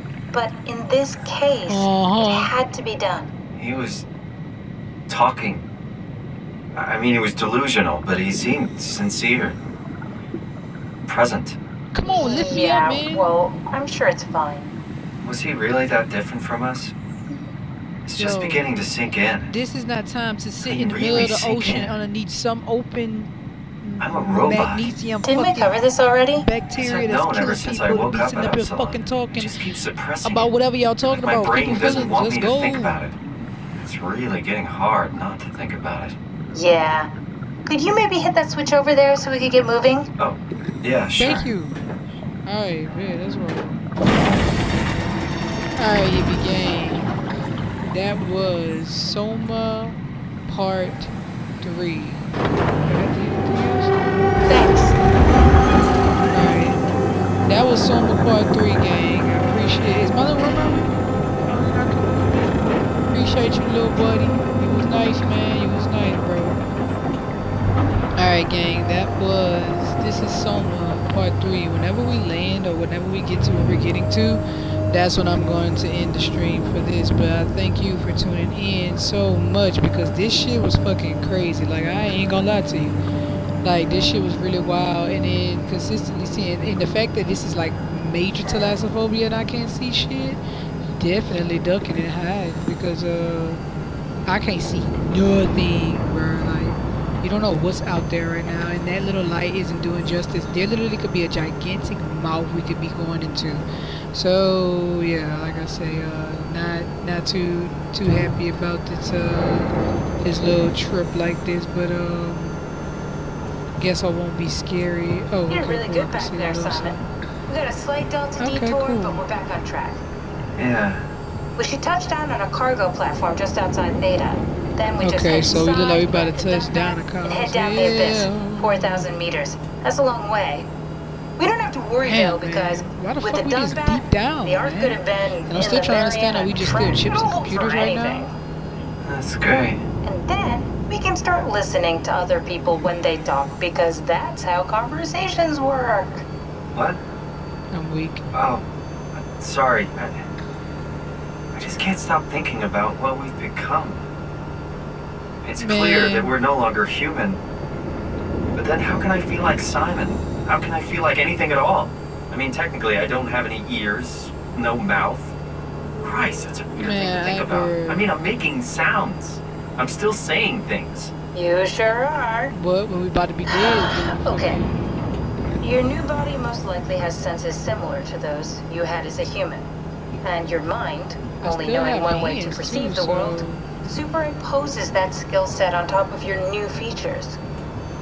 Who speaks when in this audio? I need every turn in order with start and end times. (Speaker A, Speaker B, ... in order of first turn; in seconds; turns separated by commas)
Speaker A: 0.3-3.3, Speaker B: 1.7-2.5, Speaker C: 3.6-4.1, Speaker C: 5.1-5.7, Speaker C: 6.7-9.7, Speaker C: 11.1-11.6, Speaker B: 11.9-13.3, Speaker A: 12.1-14.7, Speaker C: 15.2-16.9, Speaker C: 18.1-19.5, Speaker B: 18.2-18.8, Speaker B: 19.5-23.3, Speaker C: 20.6-21.9, Speaker B: 23.8-25.7, Speaker C: 24.0-24.9, Speaker A: 25.2-26.4, Speaker B: 26.4-29.5, Speaker C: 26.8-30.5, Speaker B: 30.2-33.0, Speaker C: 31.1-33.2, Speaker C: 33.8-36.2, Speaker A: 36.5-37.1, Speaker A: 37.7-40.1, Speaker C: 40.2-41.4, Speaker B: 41.2-41.8, Speaker B: 42.5-43.8, Speaker B: 45.8-47.1, Speaker B: 47.9-52.3, Speaker B: 52.8-54.1, Speaker A: 54.5-55.0, Speaker B: 56.3-56.9, Speaker B: 57.5-62.6, Speaker B: 63.1-66.6, Speaker B: 68.2-83.0, Speaker B: 83.6-90.4, Speaker B: 91.0-93.6, Speaker B: 94.3-112.6, Speaker B: 113.8-117.0, Speaker A: 115.5-120.0, Speaker B: 118.4-119.2, Speaker C: 120.6-121.1, Speaker A: 121.6-130.7, Speaker B: 125.0-129.1, Speaker A: 131.4-138.4, Speaker B: 132.0-138.3, Speaker C: 139.0-139.8, Speaker A: 140.0-146.2, Speaker C: 146.7-147.0, Speaker B: 147.7-148.2, Speaker C: 148.3-150.3, Speaker C: 151.5-154.1, Speaker C: 155.4-157.4, Speaker B: 155.6-156.3, Speaker C: 158.5-165.4, Speaker C: 166.0-171.1, Speaker B: 166.8-168.1, Speaker A: 171.3-172.5, Speaker B: 172.5-174.7, Speaker A: 173.5-174.6, Speaker A: 175.6-179.7, Speaker A: 180.2-187.4, Speaker B: 181.4-183.7